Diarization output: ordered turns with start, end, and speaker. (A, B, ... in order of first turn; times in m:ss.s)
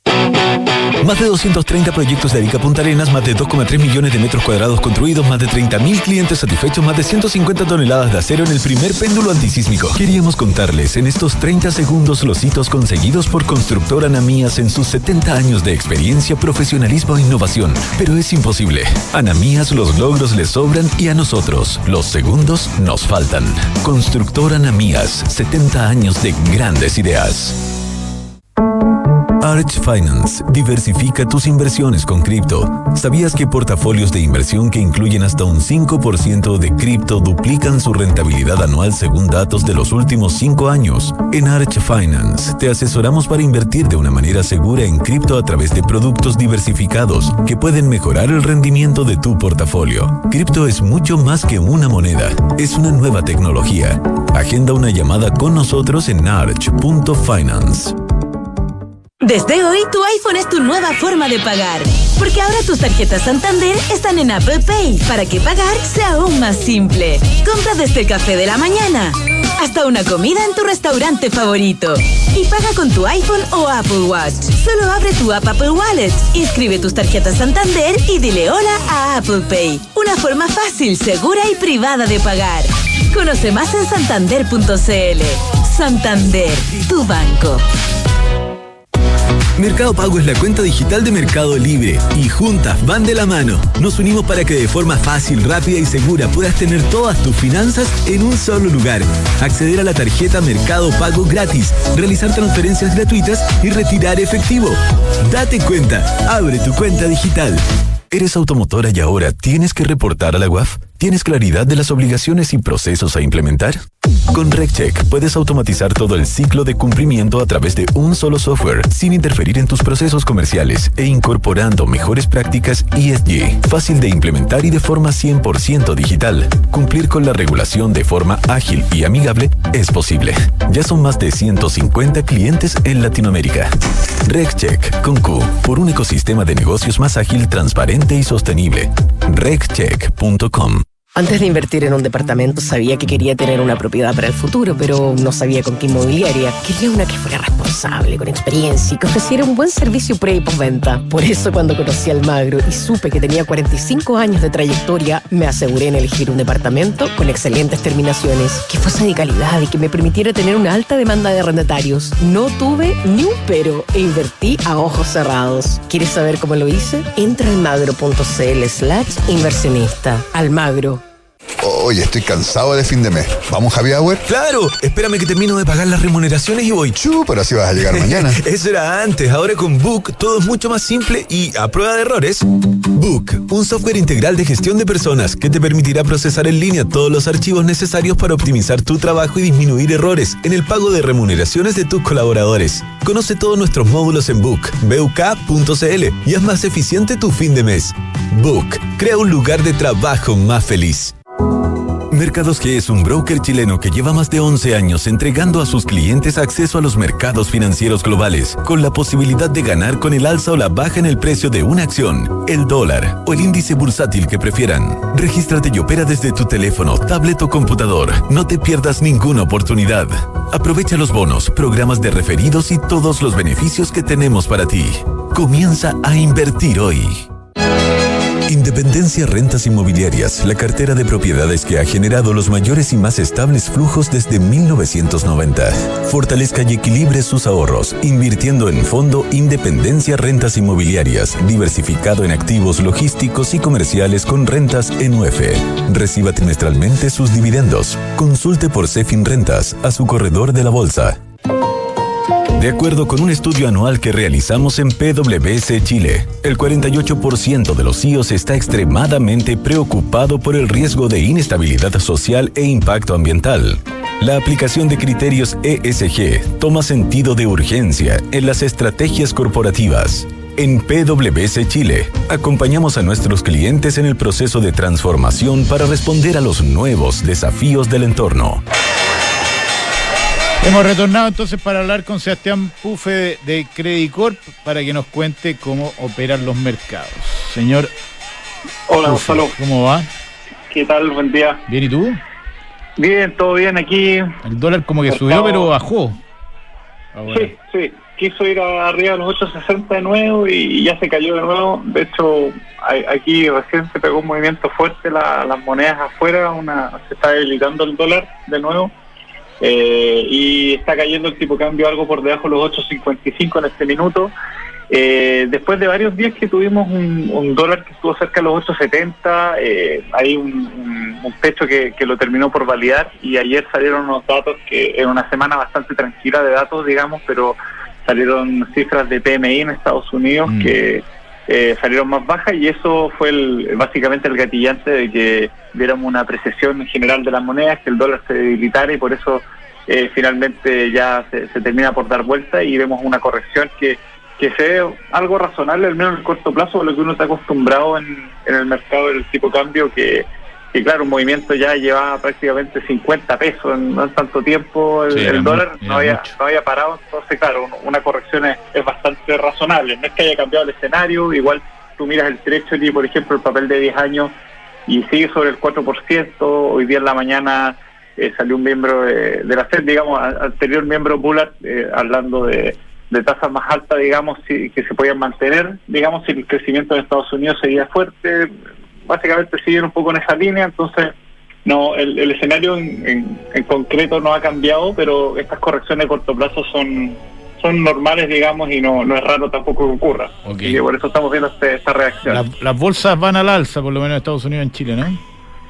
0:01.0-0:27.6 A
0:29.4-0:58.0 A
0:59.2-1:27.6 B
1:29.6-1:53.8 A
1:54.3-2:13.7 A
2:14.2-2:20.8 A
2:21.2-2:51.0 C
2:51.6-2:54.2 D
2:54.3-2:57.1 A
2:57.0-2:58.4 D
2:57.8-3:21.2 A
3:22.1-3:47.3 A
3:48.5-4:11.2 A
4:12.6-4:38.6 A
4:40.6-4:47.9 E
4:48.9-4:49.6 F
4:49.0-4:50.1 E
4:50.7-4:51.6 F
4:51.7-4:52.2 E
4:53.0-4:54.3 F
4:54.4-4:56.2 E
4:55.1-4:55.7 F
4:57.2-4:57.6 E
4:57.3-5:08.9 F
5:09.6-5:14.3 F
5:14.9-6:04.3 F
5:30.5-5:30.8 E
5:55.1-5:56.4 E
6:04.9-6:18.5 F
6:19.1-6:21.1 F
6:21.6-6:32.4 F
6:30.4-6:30.8 E
6:32.2-6:35.2 E